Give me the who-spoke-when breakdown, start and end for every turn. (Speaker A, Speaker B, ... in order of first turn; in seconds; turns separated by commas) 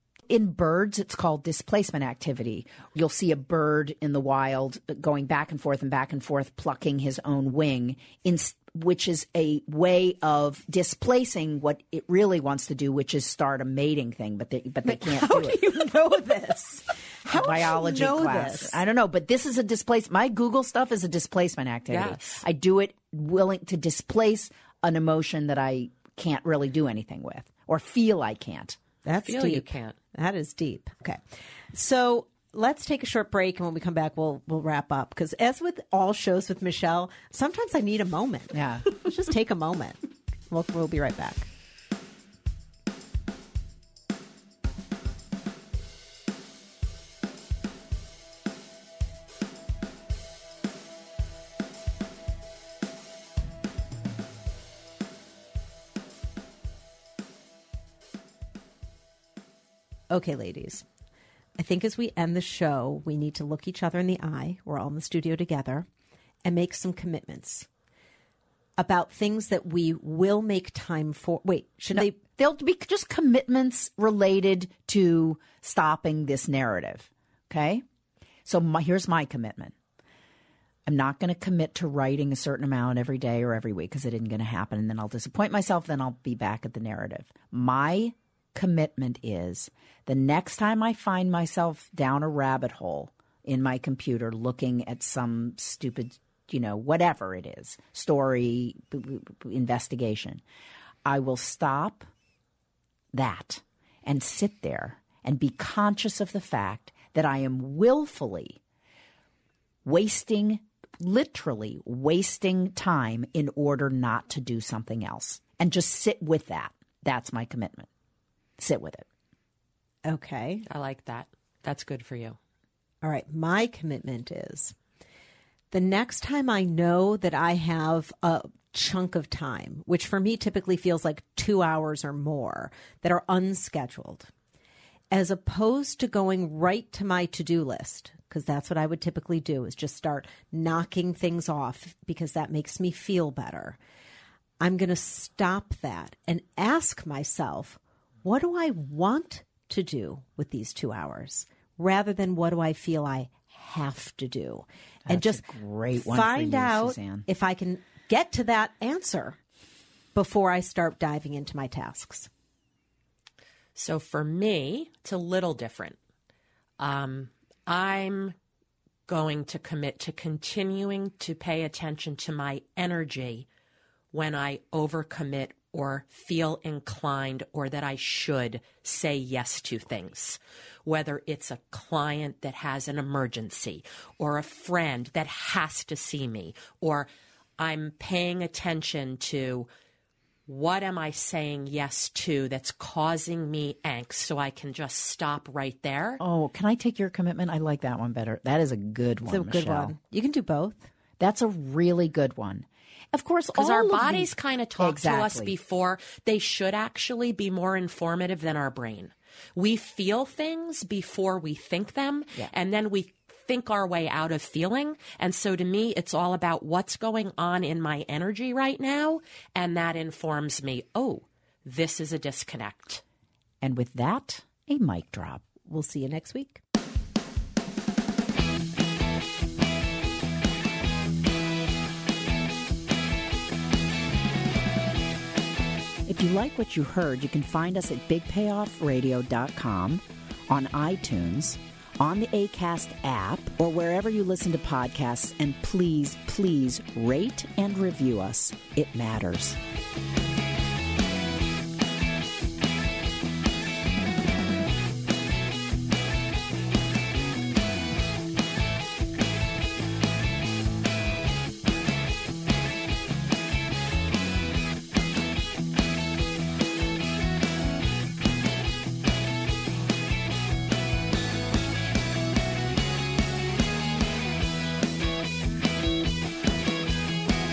Speaker A: 0.3-15.6, Speaker B: 14.8-18.8, Speaker A: 17.3-28.8, Speaker C: 21.9-22.4, Speaker B: 29.0-31.2, Speaker C: 29.2-30.0, Speaker B: 31.7-41.5, Speaker A: 38.5-38.9, Speaker B: 60.1-60.9, Speaker B: 61.6-65.9, Speaker B: 66.4-67.7, Speaker B: 68.8-72.2, Speaker A: 71.9-77.8, Speaker A: 78.5-79.7, Speaker A: 80.8-100.4, Speaker A: 101.0-102.1, Speaker A: 103.1-108.6, Speaker A: 109.8-117.9, Speaker A: 118.6-119.1, Speaker B: 120.0-120.7, Speaker C: 120.7-122.4, Speaker B: 123.0-124.7, Speaker B: 125.7-134.3, Speaker B: 135.1-143.8, Speaker B: 144.6-159.4, Speaker A: 155.1-157.2, Speaker B: 160.1-162.3, Speaker C: 163.7-166.0, Speaker C: 166.8-168.3, Speaker C: 169.1-173.4, Speaker C: 174.1-187.1, Speaker C: 187.6-189.7, Speaker C: 190.5-196.2, Speaker A: 196.2-199.9, Speaker B: 199.2-200.9, Speaker A: 201.2-205.5, Speaker C: 203.5-223.0, Speaker A: 223.6-225.4, Speaker B: 225.7-226.6, Speaker A: 236.1-249.6